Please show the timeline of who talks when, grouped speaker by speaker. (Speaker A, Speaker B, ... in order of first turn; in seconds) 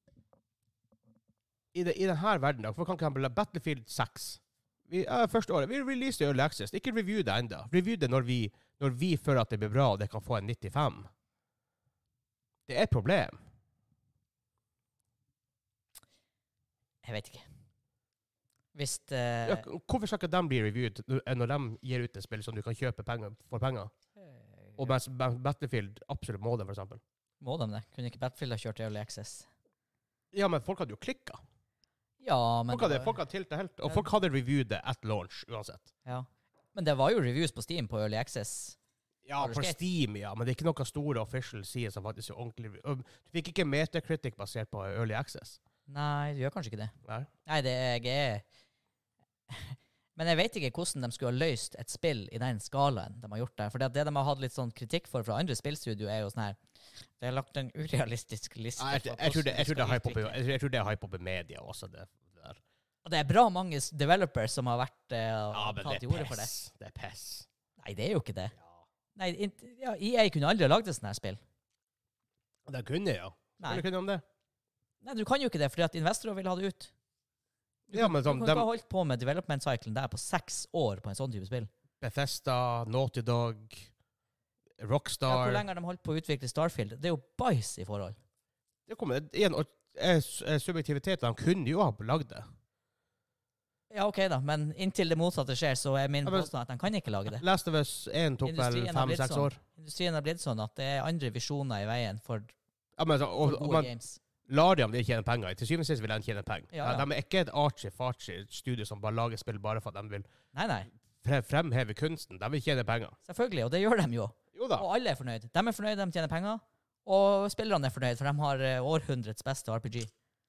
Speaker A: 1.7-11.1, 12.7-13.4, 19.4-23.9, 24.8-27.0, 30.3-31.4, 32.7-35.9, 39.2-45.6, 58.8-62.6, 65.5-67.5, 68.6-68.8, 72.7-74.2, 77.9-78.7, 82.0-83.9, 84.8-85.6, 88.9-92.5, 96.2-96.5, 97.3-99.6, 103.0-103.9, 104.5-110.3, 111.2-113.2, 114.5-114.9
Speaker B: 17.0-17.5, 18.8-19.7, 24.3-24.9, 27.4-29.5, 32.2-33.2, 36.0-38.8, 39.4-39.8, 45.9-47.0, 47.5-48.5, 49.5-56.6, 57.2-60.4, 63.0-66.5, 67.8-68.5, 69.2-71.4, 73.6-73.9, 75.0-76.9, 77.9-81.7, 85.3-88.2, 93.9-97.4, 98.4-102.5, 103.4-104.2, 106.7-107.1, 110.5-110.9, 113.2-120.1